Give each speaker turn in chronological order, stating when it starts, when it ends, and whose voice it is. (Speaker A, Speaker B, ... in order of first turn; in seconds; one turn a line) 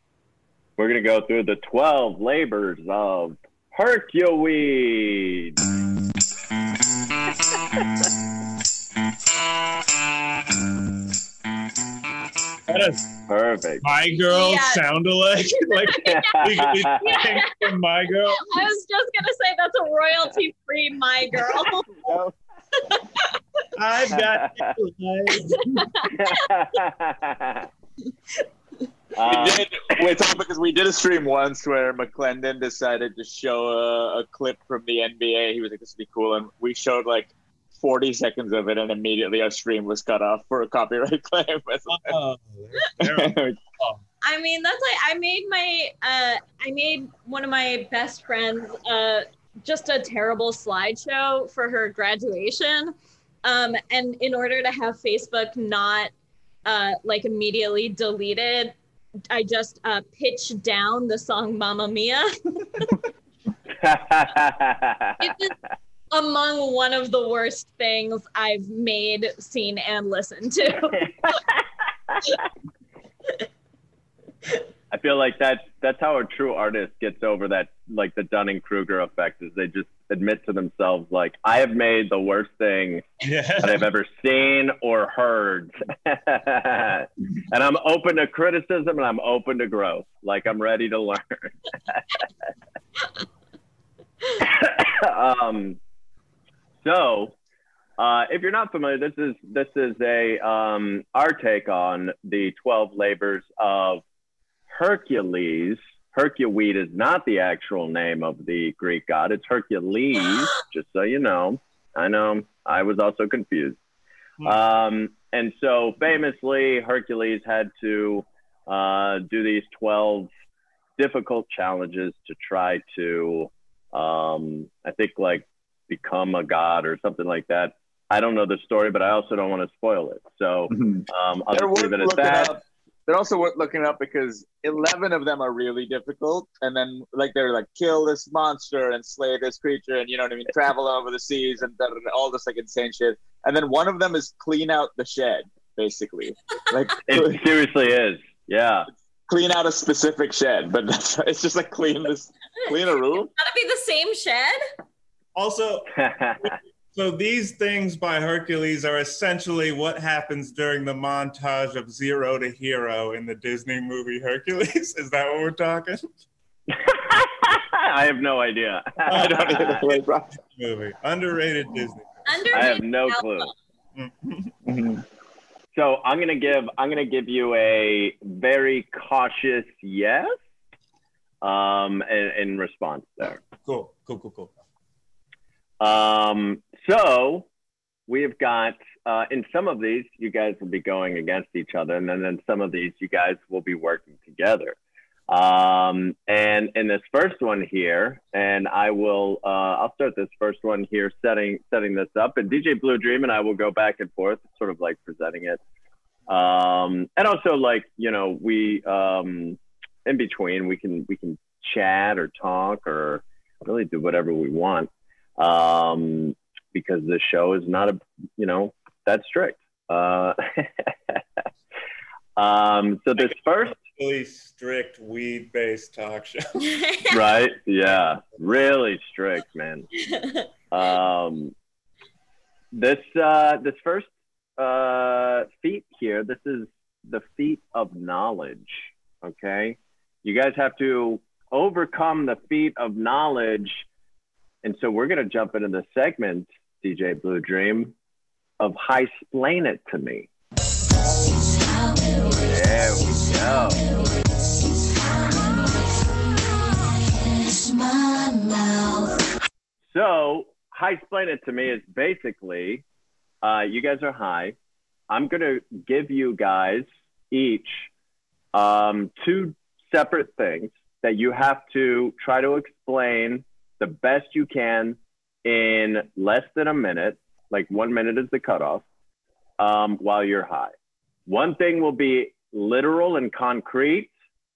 Speaker A: 0.8-5.5
Speaker B: 12.7-13.1
Speaker A: 13.3-13.8
Speaker B: 13.8-18.5
Speaker C: 14.3-14.8
Speaker C: 15.7-16.4
Speaker A: 16.1-16.9
Speaker C: 17.0-17.5
Speaker C: 18.3-21.9
Speaker C: 22.8-23.3
Speaker B: 23.8-25.6
Speaker A: 24.1-24.7
Speaker C: 25.4-26.2
Speaker A: 26.1-27.7
Speaker A: 29.1-30.1
Speaker D: 29.3-42.2
Speaker B: 41.9-44.0
Speaker D: 43.0-43.6
Speaker C: 44.2-52.9
Speaker C: 53.4-56.1
Speaker C: 56.6-58.8
Speaker C: 59.3-63.0
Speaker A: 63.8-65.2
Speaker C: 65.2-65.5
Speaker C: 66.1-71.1
Speaker A: 71.0-71.4
Speaker A: 74.9-83.1
Speaker B: 83.2-83.8
Speaker A: 83.6-92.0
Speaker A: 94.4-95.8
Speaker A: 96.8-97.3
Speaker A: 98.0-104.0
Speaker A: 104.7-113.8
Speaker A: 114.4-120.3
Speaker A: 121.0-132.5
Speaker D: 130.7-147.4
Speaker A: 147.1-148.9
Speaker D: 149.3-153.3
Speaker C: 153.4-154.6
Speaker B: 155.3-155.9
Speaker A: 155.9-156.5
Speaker B: 156.4-166.1
Speaker A: 166.7-169.8
Speaker B: 169.1-172.4
Speaker D: 169.1-170.3
Speaker C: 172.3-173.5
Speaker A: 172.5-173.5
Speaker B: 173.9-174.5
Speaker D: 174.6-175.0
Speaker A: 175.7-180.4
Speaker A: 181.4-183.4
Speaker B: 183.6-184.5
Speaker A: 185.8-187.5
Speaker A: 188.1-194.8
Speaker A: 195.3-205.6
Speaker A: 206.3-221.2
Speaker A: 222.4-223.8
Speaker B: 223.2-226.4
Speaker C: 226.6-227.2
Speaker A: 227.1-229.8
Speaker C: 230.1-230.4
Speaker A: 230.7-231.5
Speaker A: 232.7-243.8
Speaker A: 244.6-247.9
Speaker A: 248.6-250.3
Speaker A: 252.3-254.0
Speaker A: 259.9-262.8
Speaker A: 263.4-264.5
Speaker A: 265.1-267.9
Speaker A: 268.5-278.8
Speaker A: 279.6-280.7
Speaker A: 281.3-284.1